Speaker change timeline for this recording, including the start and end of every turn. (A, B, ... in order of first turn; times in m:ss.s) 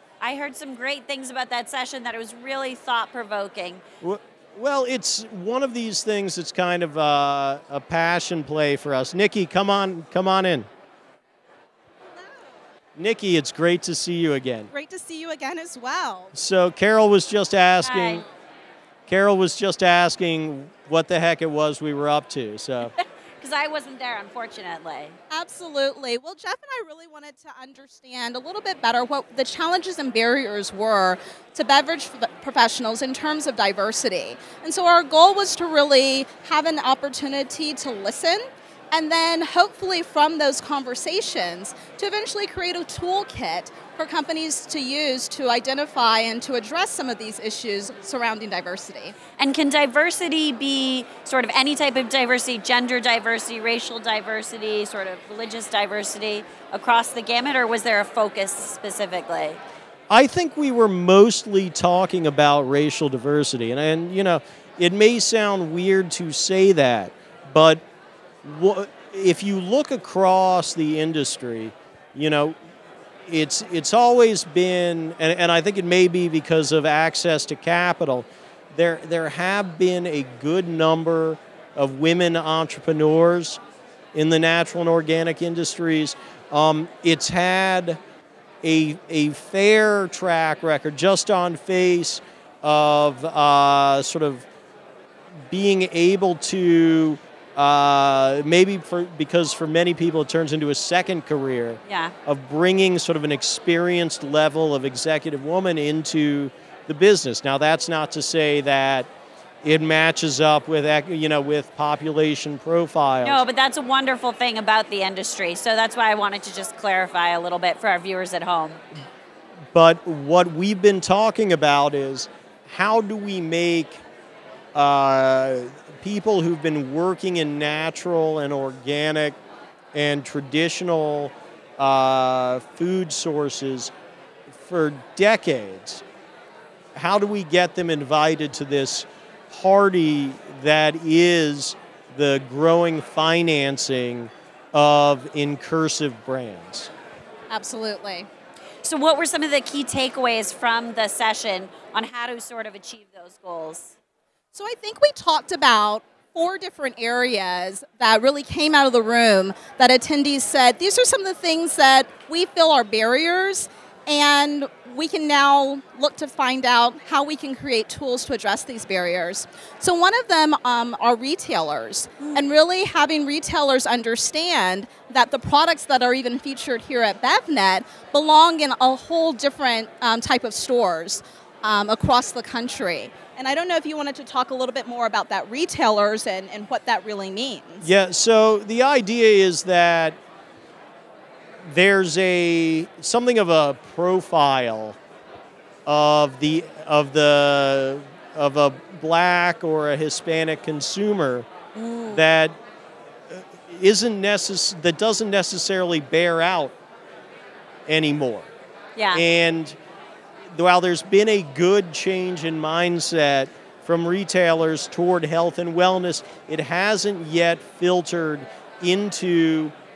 0:00.2-0:03.8 A
0:04.0-0:10.7 B
0:13.0-0:14.7 B
0:14.7-0:16.3 C
0:16.3-0:18.2 B
0:17.8-0:18.2 A
0:19.1-0:22.9 B
0:23.0-0:25.1 A
0:25.3-0:49.2 C
0:49.4-0:59.6 A
1:00.1-1:07.8 B
1:08.4-1:12.6 B
1:13.3-1:23.6 B
1:24.1-1:28.0 B
1:28.6-1:34.4 B
1:35.5-1:49.1 B
1:41.9-1:42.1 A
1:49.6-1:53.4 B
1:53.2-1:58.8 A
1:59.7-2:04.0 B
2:04.7-2:09.4 B
2:09.9-2:13.9 B
2:14.5-2:16.0 B
2:16.9-2:26.9 B
2:27.5-2:28.3 C
2:28.8-2:33.9 A
2:34.5-3:07.9 C
2:52.2-2:52.5 A
3:07.8-3:10.2 B
3:11.6-3:15.0 B
3:15.8-3:21.5 B
3:21.7-3:22.2 A
3:22.1-3:22.5 B
3:23.3-3:26.7 B
3:27.9-3:28.5 B
3:29.0-3:29.2 A
3:29.1-3:29.8 B
3:30.5-3:39.7 B